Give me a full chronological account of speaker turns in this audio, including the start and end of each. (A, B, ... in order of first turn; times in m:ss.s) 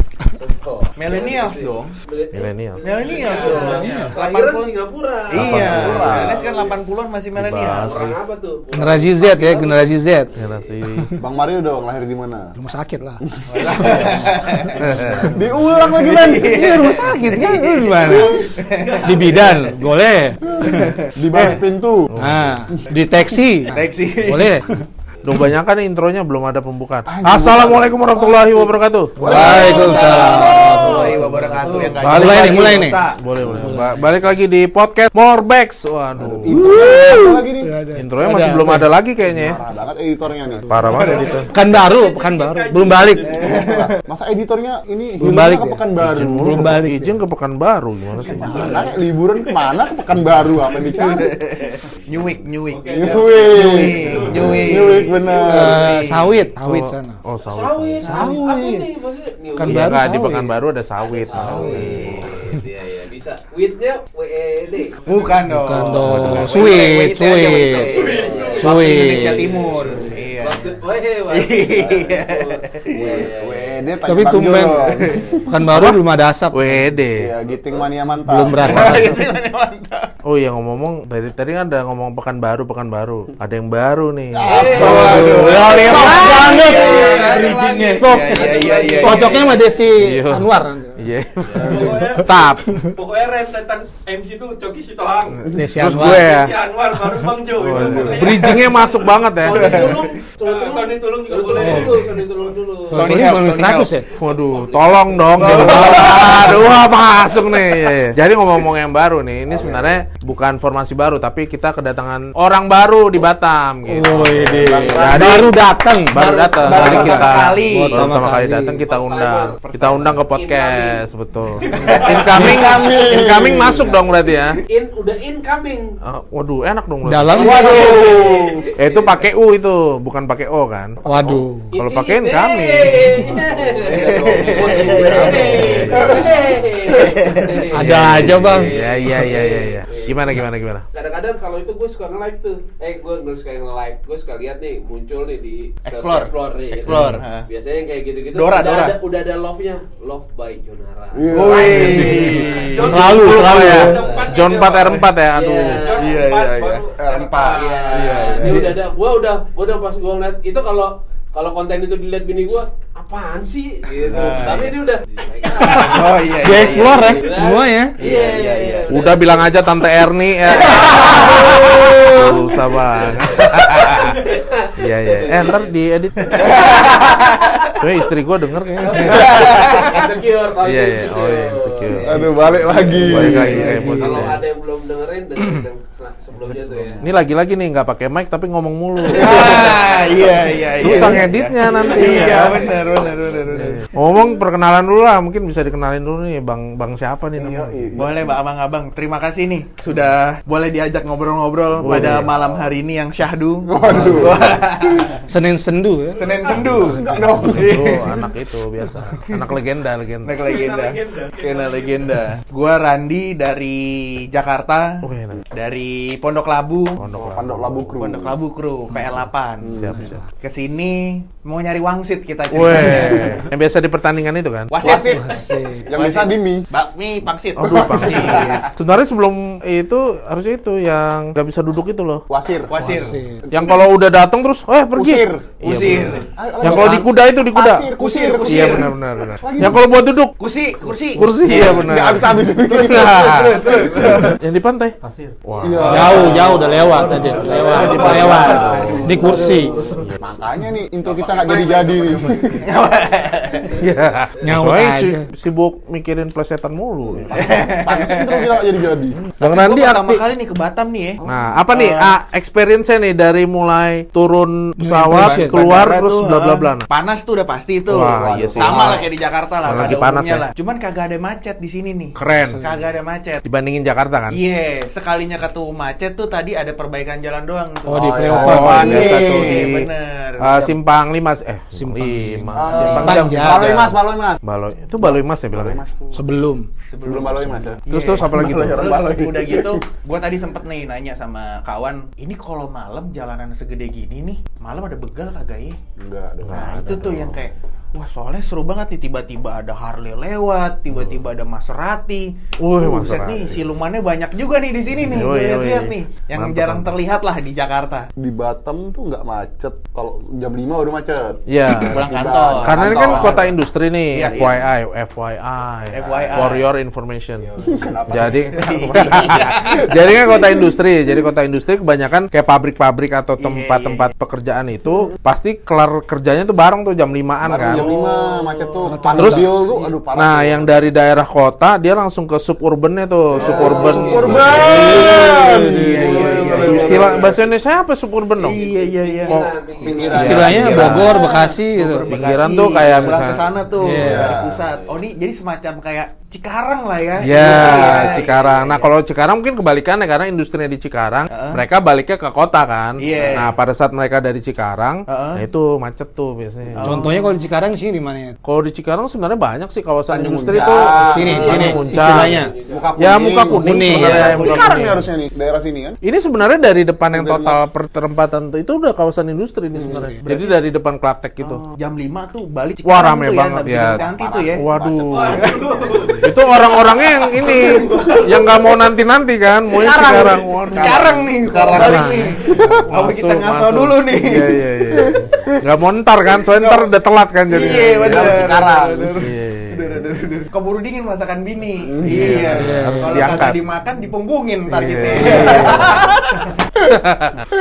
0:00.4-0:06.8 A
0:01.0-0:02.0 B
0:02.3-0:02.9 C
0:02.8-0:04.7 B
0:03.0-0:03.8 D
0:03.7-0:04.2 E
0:05.3-0:08.0 B
0:05.3-0:06.4 C
0:05.9-0:06.1 F
0:07.3-0:08.2 C
0:07.6-0:10.7 A
0:08.7-0:10.3 E
0:10.4-0:11.1 C
0:11.2-0:12.5 F
0:12.6-0:13.2 E
0:13.5-0:13.9 F
0:13.5-0:19.9 B
0:13.6-0:14.1 D
0:14.0-0:15.4 E
0:14.8-0:17.0 F
0:14.8-0:15.3 C
0:16.2-0:18.4 E
0:17.9-0:18.5 F
0:18.7-0:19.5 D
0:19.0-0:20.7 E
0:20.4-0:22.1 F
0:20.7-0:21.1 B
0:21.3-0:22.6 C
0:22.2-0:24.8 E
0:23.7-0:24.8 B
0:25.2-0:29.6 C
0:27.1-0:29.7 F
0:29.2-0:34.2 E
0:29.2-0:33.2 B
0:29.6-0:31.2 D
0:32.0-0:36.8 C
0:33.4-0:33.7 F
0:36.2-0:37.7 F
0:36.5-0:38.9 E
0:38.0-0:39.6 C
0:39.3-0:41.3 F
0:40.7-0:41.5 C
0:40.9-0:41.4 B
0:40.9-0:43.6 D
0:41.5-0:43.3 E
0:43.3-0:44.0 B
0:43.4-0:46.5 F
0:45.2-0:47.2 E
0:46.0-0:48.6 C
0:48.2-0:49.0 B
0:48.4-0:51.7 F
0:49.4-0:49.8 D
0:50.8-0:55.2 B
0:52.7-0:54.9 D
0:52.9-0:55.9 F
0:55.3-0:56.3 A
0:55.5-0:57.2 E
0:55.7-0:56.0 B
0:56.6-0:58.3 C
0:57.5-1:00.0 A
0:58.0-0:58.9 E
0:59.6-1:00.5 E
0:59.6-1:02.3 C
1:01.0-1:05.0 A
1:01.4-1:02.6 E
1:01.6-1:02.2 B
1:05.1-1:05.3 D
1:05.1-1:10.8 B
1:05.5-1:07.9 E
1:06.0-1:06.5 C
1:07.6-1:13.9 A
1:07.9-1:08.8 D
1:08.6-1:10.2 E
1:11.3-1:13.3 B
1:13.1-1:15.4 F
1:14.0-1:15.0 E
1:14.3-1:15.4 B
1:15.5-1:16.8 E
1:15.7-1:17.3 C
1:17.2-1:19.0 F
1:18.3-1:19.3 E
1:18.5-1:20.1 B
1:20.2-1:26.2 C
1:24.3-1:27.0 F
1:24.4-1:29.7 A
1:24.6-1:31.0 E
1:24.7-1:29.6 B
1:26.5-1:28.0 D
1:29.9-1:32.8 C
1:31.6-1:32.1 F
1:31.6-1:39.3 D
1:35.5-1:36.3 E
1:35.6-1:36.5 C
1:37.6-1:40.0 C
1:37.7-1:38.6 F
1:39.4-1:43.1 A
1:39.5-1:40.2 B
1:40.4-1:42.5 D
1:41.5-1:42.2 E
1:41.7-1:42.1 C
1:42.9-1:44.1 E
1:42.9-1:43.9 B
1:44.1-1:46.4 A
1:44.2-1:55.5 C
1:45.4-1:46.6 E
1:45.4-1:46.5 B
1:49.6-1:49.8 B
1:53.9-1:58.8 E
1:54.6-1:55.5 F
1:54.6-1:55.0 B
1:56.1-2:04.6 C
1:56.2-1:58.2 B
1:58.9-2:01.0 A
1:59.7-2:00.2 B
2:01.6-2:02.4 B
2:01.8-2:02.8 A
2:02.1-2:02.6 E
2:02.3-2:03.9 F
2:03.6-2:04.1 A
2:04.7-2:05.9 A
2:06.0-2:07.9 C
2:07.0-2:07.8 E
2:07.3-2:09.1 A
2:07.4-2:08.7 F
2:08.8-2:11.0 C
2:11.0-2:11.4 F
2:11.0-2:11.7 E
2:11.7-2:32.8 A
2:11.8-2:13.2 C
2:13.7-2:16.3 B
2:14.5-2:16.4 C
2:15.9-2:17.2 F
2:16.8-2:17.7 B
2:17.7-2:18.8 E
2:17.8-2:20.8 C
2:25.9-2:27.5 B
2:26.7-2:27.2 C
2:28.3-2:29.0 B
2:31.1-2:32.2 F
2:31.3-2:33.8 B
2:31.7-2:34.0 E
2:32.4-2:35.0 D
2:32.9-2:35.8 C
2:33.8-2:34.4 A
2:34.4-2:35.1 B
2:35.3-2:36.2 A
2:35.7-2:37.0 D
2:36.0-2:36.8 B
2:37.0-2:38.2 F
2:37.2-2:49.6 A
2:37.6-2:38.8 B
2:44.0-2:44.8 B
2:45.6-2:47.3 B
2:45.7-2:48.0 E
2:48.0-2:48.9 B
2:48.9-2:54.2 C
2:50.5-2:52.4 B
2:50.5-2:52.4 A
2:53.0-2:55.7 A
2:54.8-2:56.7 C
2:56.2-2:57.7 B
2:56.3-2:57.8 A
2:57.8-2:59.9 C
2:58.8-3:02.2 A
2:59.0-3:00.0 B
2:59.3-3:00.0 F
3:00.6-3:04.4 C
3:02.0-3:02.3 E
3:02.0-3:03.8 F
3:03.0-3:04.3 E
3:03.3-3:04.1 B
3:03.9-3:07.0 A
3:05.4-3:05.6 E
3:06.4-3:07.0 B
3:07.0-3:10.0 C
3:09.1-3:13.6 A
3:09.1-3:13.9 B
3:10.7-3:12.7 C
3:13.5-3:17.9 C
3:17.4-3:18.4 F
3:18.0-3:25.2 B
3:21.8-3:22.3 C
3:21.8-3:22.7 F
3:23.7-3:25.1 F
3:23.9-3:24.3 C
3:25.3-3:26.2 E
3:26.2-3:28.2 B
3:26.5-3:28.3 F
3:26.5-3:26.8 C
3:27.4-3:30.3 C
3:30.2-3:37.0 B
3:30.4-3:32.2 D
3:35.0-3:35.4 C
3:37.0-3:37.9 C
3:37.2-3:38.4 F
3:38.0-3:39.8 B
3:38.9-3:39.2 E
3:39.6-3:40.1 F
3:39.7-3:40.2 C
3:39.8-3:40.2 E
3:40.4-3:43.5 B
3:42.5-3:44.8 C
3:42.7-3:43.2 E
3:44.7-3:48.7 B
3:44.8-3:46.7 F
3:45.0-3:45.9 E
3:47.6-3:52.2 C
3:47.7-3:48.6 F
3:52.3-3:52.7 F
3:52.7-3:53.2 B
3:52.8-3:53.5 E
3:53.5-3:53.8 F
3:53.5-3:57.9 C
3:55.0-3:55.5 F
3:55.6-3:56.3 B
3:56.3-3:59.9 F
3:58.0-3:58.9 B
3:58.4-4:00.4 C
4:00.4-4:01.3 B
4:01.2-4:06.4 C
4:01.3-4:04.4 F
4:03.1-4:04.4 B
4:05.6-4:12.7 F
4:05.8-4:09.9 B
4:05.8-4:09.8 E
4:07.7-4:08.4 D
4:08.0-4:09.0 C
4:09.9-4:10.4 C
4:11.3-4:11.8 B
4:12.6-4:13.9 B
4:13.8-4:17.4 C
4:14.4-4:15.3 E
4:17.2-4:19.2 F
4:17.4-4:18.6 B
4:19.3-4:20.2 C
4:19.4-4:22.1 B
4:21.3-4:26.9 C
4:24.8-4:25.8 E
4:25.2-4:33.4 B
4:27.9-4:29.0 C
4:27.9-4:29.0 F
4:29.6-4:30.5 C
4:32.2-4:32.6 C
4:32.4-4:32.8 E
4:33.4-4:34.4 C
4:34.3-4:40.8 B
4:37.9-4:39.2 E
4:38.2-4:39.5 F
4:38.3-4:39.9 C
4:40.4-4:45.8 C
4:41.7-4:43.7 E
4:42.6-4:44.4 F
4:42.8-4:43.2 B
4:45.0-4:46.2 F
4:46.1-4:46.7 E
4:46.9-4:55.8 B
4:47.0-4:49.8 F
4:47.9-4:48.9 C
4:56.0-4:56.8 F
4:56.4-4:57.4 C
4:56.5-5:08.1 B
5:01.0-5:01.2 C
5:02.6-5:03.6 C
5:05.0-5:07.0 C
5:08.2-5:13.5 F
5:11.5-5:12.0 C
5:11.8-5:13.5 B
5:12.6-5:17.5 C
5:14.1-5:14.6 B
5:15.9-5:16.6 B
5:17.4-5:17.9 A
5:17.6-5:20.7 F
5:18.1-5:27.9 C
5:18.5-5:19.9 B
5:23.4-5:24.1 B
5:24.9-5:25.2 F
5:27.4-5:30.8 F
5:27.7-5:29.9 B
5:29.1-5:35.1 C
5:33.4-5:37.3 B
5:33.4-5:37.3 F
5:33.4-5:35.2 A
5:34.2-5:36.7 E
5:36.0-5:37.4 A
5:36.1-5:38.6 C
5:38.4-5:41.3 A
5:38.4-5:48.9 B
5:39.3-5:41.2 C
5:39.8-5:40.8 F
5:40.0-5:42.1 E
5:42.1-5:43.4 C
5:43.8-5:44.4 E
5:44.0-5:44.6 F
5:44.0-5:44.3 C
5:44.6-5:45.1 A
5:47.2-5:56.8 C
5:47.4-5:47.9 E
5:47.9-5:48.2 A
5:51.3-5:51.6 B
5:53.0-5:53.5 B
5:53.1-5:53.4 F
5:55.1-5:55.4 B
5:56.8-5:57.3 B
5:56.8-5:58.4 E
5:58.4-6:02.4 C
6:00.1-6:01.8 F
6:00.5-6:01.7 B
6:01.0-6:02.5 E
6:01.2-6:02.9 A
6:02.7-6:06.0 F
6:03.0-6:05.0 C
6:03.5-6:05.0 E
6:03.9-6:04.8 B
6:06.0-6:11.6 C
6:07.1-6:07.6 F
6:09.9-6:10.3 E
6:10.3-6:10.5 B
6:11.4-6:16.2 B
6:12.8-6:15.5 C
6:14.2-6:15.6 F
6:15.1-6:16.4 D
6:16.2-6:21.2 C
6:17.1-6:18.3 B
6:17.6-6:18.5 D
6:19.7-6:24.6 B
6:20.1-6:22.8 F
6:21.7-6:28.5 C
6:25.0-6:25.6 F
6:26.5-6:26.9 B
6:27.5-6:36.6 B
6:27.6-6:29.3 F
6:29.2-6:30.0 C
6:31.8-6:32.6 F
6:32.0-6:33.7 C
6:32.5-6:33.4 E
6:34.7-6:36.0 C
6:35.2-6:36.2 F
6:36.9-6:37.4 C